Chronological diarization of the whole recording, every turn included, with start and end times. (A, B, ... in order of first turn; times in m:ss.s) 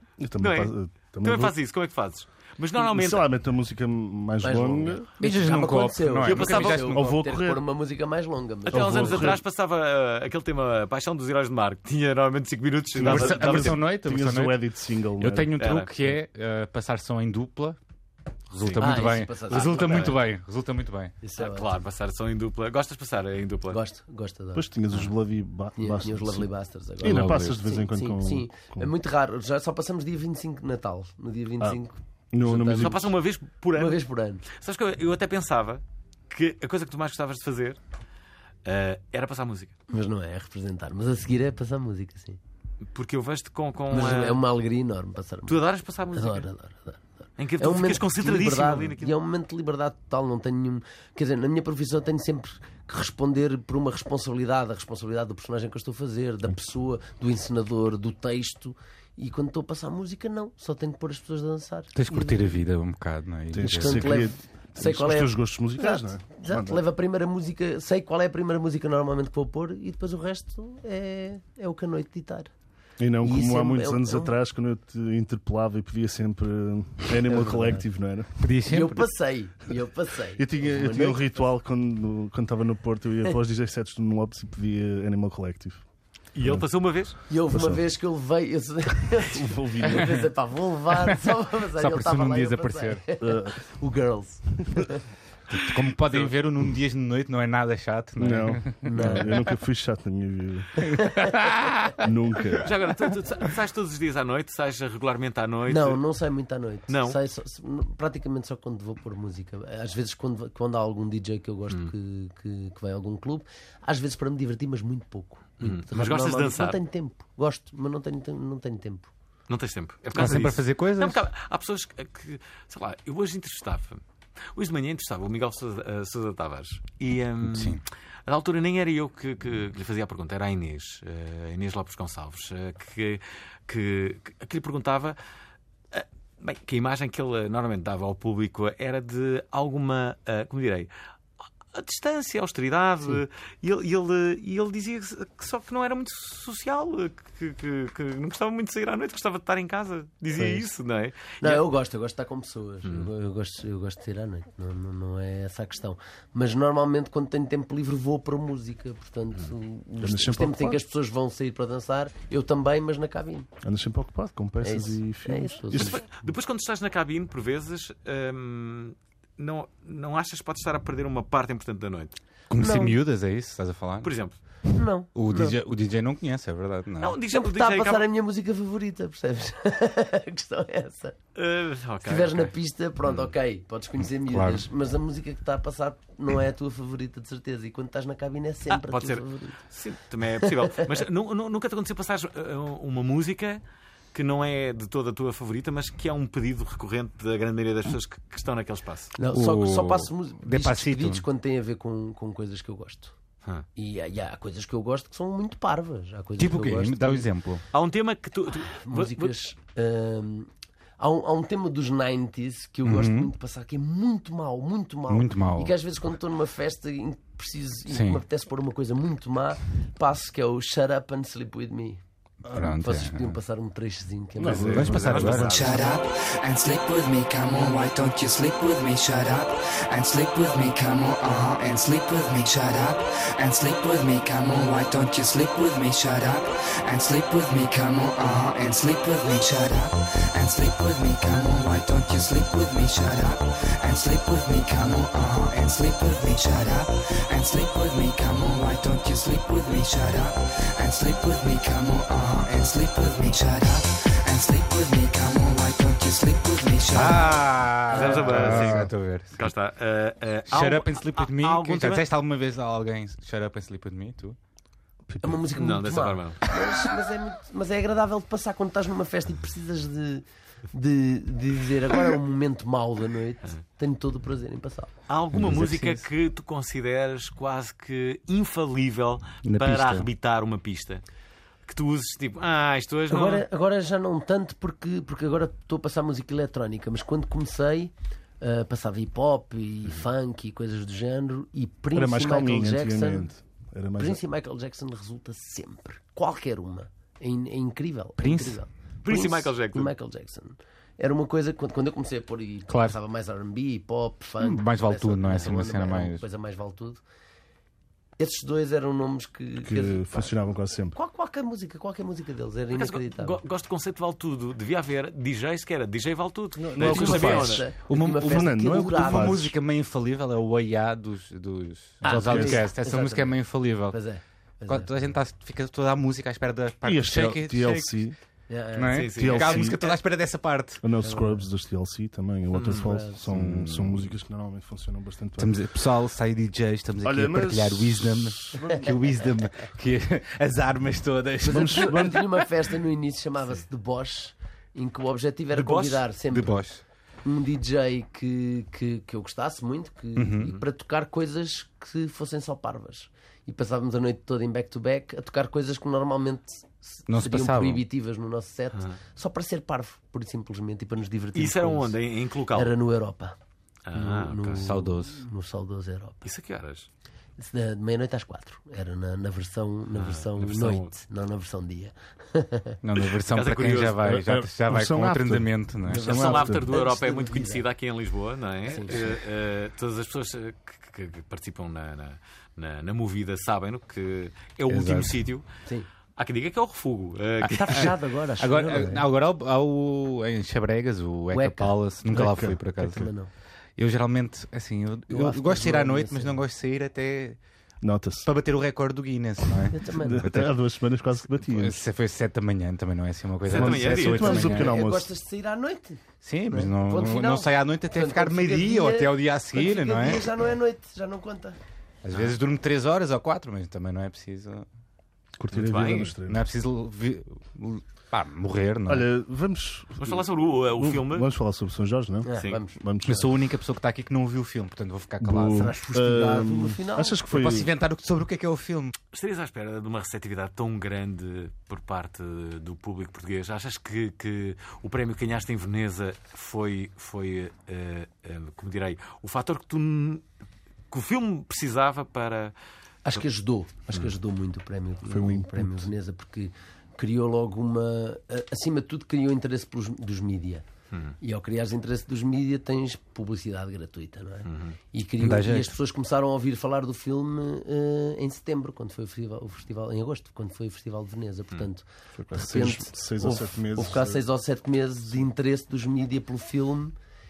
0:00.2-0:01.5 A
0:00.4-0:03.2 B
0:02.8-0:05.0 A
0:04.4-0:09.3 C
0:05.2-0:07.1 D
0:06.2-0:06.9 B
0:06.8-0:07.6 A
0:08.7-0:09.4 A
0:08.7-0:13.8 B
0:12.9-0:15.6 A
0:13.0-0:14.6 D
0:15.2-0:17.8 D
0:15.6-0:15.9 B
0:18.5-0:21.1 D
0:18.6-0:20.2 B
0:18.8-0:20.2 C
0:21.2-0:21.7 C
0:21.4-0:23.8 B
0:23.7-0:24.7 C
0:24.5-0:26.5 A
0:25.8-0:33.1 C
0:27.0-0:28.9 A
0:27.0-0:27.6 D
0:32.3-0:33.1 A
0:32.7-0:37.8 B
0:33.7-0:34.4 C
0:38.6-0:39.8 B
0:39.9-0:42.4 C
0:42.9-0:44.4 B
0:43.9-1:02.5 C
0:45.5-0:46.5 B
0:47.4-0:49.1 B
1:01.9-1:04.2 D
1:03.5-1:06.8 A
1:03.6-1:12.5 C
1:13.0-1:18.3 A
1:13.2-1:14.3 C
1:17.2-1:17.9 C
1:18.4-1:19.1 D
1:18.6-1:21.3 C
1:20.4-1:25.8 A
1:26.3-1:27.2 B
1:27.3-1:35.0 C
1:27.5-1:27.8 A
1:29.1-1:30.2 A
1:31.8-1:33.0 D
1:33.2-1:33.5 A
1:35.5-1:38.9 D
1:38.2-1:40.9 A
1:38.8-1:39.3 C
1:40.9-1:41.3 C
1:40.9-1:42.0 D
1:42.0-1:42.8 A
1:42.6-1:46.0 B
1:45.7-1:59.1 C
1:46.9-1:47.2 B
1:55.6-1:56.8 B
1:59.5-2:04.0 B
2:00.1-2:01.2 D
2:04.5-2:15.2 B
2:07.4-2:07.8 D
2:15.9-2:20.9 B
2:21.7-2:31.6 B
2:31.4-2:43.5 C
2:32.8-2:33.1 B
2:40.0-2:40.8 A
2:43.6-2:46.0 A
2:44.6-2:46.0 C
2:45.7-2:52.2 B
2:52.5-2:54.1 D
2:52.6-2:53.0 C
2:54.0-2:54.3 B
2:54.7-2:55.5 C
2:55.1-2:57.2 D
2:57.0-2:58.0 B
2:57.3-3:01.2 C
3:01.4-3:02.5 B
3:02.0-3:09.6 C
3:04.3-3:04.6 D
3:08.7-3:13.6 B
3:10.4-3:10.8 C
3:14.1-3:19.1 B
3:19.1-3:23.1 C
3:19.3-3:21.2 D
3:23.7-3:27.3 C
3:26.4-3:27.6 D
3:27.7-3:29.3 B
3:28.6-3:42.0 C
3:32.8-3:33.3 D
3:35.1-3:35.7 D
3:37.9-3:38.2 D
3:42.4-3:42.8 A
3:42.5-3:43.4 D
3:42.6-3:45.3 C
3:44.4-3:45.5 A
3:44.5-3:45.5 D
3:44.6-3:45.8 B
3:45.1-4:17.5 E
4:16.9-4:19.4 D
4:17.9-4:22.0 B
4:18.2-4:18.9 A
4:20.5-4:24.4 D
4:25.1-4:25.4 A
4:25.2-4:34.9 C
4:25.5-4:26.4 B
4:35.1-4:41.0 B
4:35.3-4:36.0 D
4:39.4-4:40.1 D
4:41.7-4:43.4 B
4:43.1-4:53.3 C
4:51.9-4:54.2 A
4:54.0-5:07.0 C
4:58.2-4:58.6 D
4:59.0-4:59.9 B
5:02.7-5:03.0 D
5:04.4-5:06.2 D
5:08.2-5:10.3 C
5:09.6-5:11.0 A
5:10.9-5:13.4 C
5:12.7-5:17.6 B
5:16.6-5:19.5 C
5:16.8-5:17.5 A
5:16.8-5:24.0 D
5:18.1-5:19.5 A
5:22.0-5:22.6 A
5:22.0-5:25.1 C
5:24.7-5:28.0 D
5:26.8-5:28.2 A
5:28.5-5:29.0 C
5:28.8-5:30.8 D
5:28.9-5:29.9 B
5:29.1-5:29.8 A
5:30.8-5:35.6 A
5:31.0-5:31.4 C
5:32.5-5:32.9 B
5:32.6-5:33.2 C
5:33.2-5:34.1 D
5:35.4-5:42.3 D
5:37.0-5:39.0 A
5:41.4-5:46.6 C
5:41.5-5:42.2 A
5:45.5-5:46.0 B
5:46.3-5:46.8 D
5:47.2-6:02.0 C
5:50.2-5:50.6 D
5:57.1-5:57.8 D
6:01.3-6:02.7 B
6:02.5-6:03.4 C
6:03.8-6:04.6 B
6:03.9-6:06.3 C
6:04.6-6:05.2 D
6:06.2-6:06.9 B
6:07.4-6:12.8 C
6:09.9-6:10.9 B
6:12.8-6:16.0 D
6:13.2-6:14.0 B
6:14.0-6:16.7 A
6:15.9-6:17.6 C
6:16.0-6:25.4 B
6:18.6-6:19.2 C
6:24.7-6:25.2 D
6:26.2-6:27.9 B
6:27.4-6:29.0 C
6:27.7-6:33.1 D
6:31.3-6:31.7 C
6:32.1-6:33.0 A
6:32.8-6:33.3 C
6:33.8-6:37.4 D
6:35.1-6:36.4 C
6:37.8-6:38.3 A
6:38.2-6:40.6 D
6:39.7-6:40.3 C
6:40.0-6:41.8 A
6:41.3-6:44.7 D
6:43.4-6:44.5 B
6:43.5-6:45.1 A
6:44.1-6:51.6 C
6:46.2-6:50.2 D
6:52.0-6:54.6 D
6:55.4-6:56.4 A
6:55.5-6:56.1 B
6:56.2-6:59.1 D
6:58.8-7:03.3 A
7:00.0-7:01.3 B
7:02.2-7:02.8 C
7:03.0-7:05.7 D
7:05.2-7:07.7 A
7:05.5-7:07.2 C
7:07.3-7:08.9 D
7:09.1-7:20.2 B
7:20.9-7:22.5 B
7:23.0-7:30.6 C
7:25.1-7:25.9 A
7:31.2-7:46.9 C
7:34.5-7:34.8 B
7:35.2-7:35.7 D
7:42.2-7:44.2 A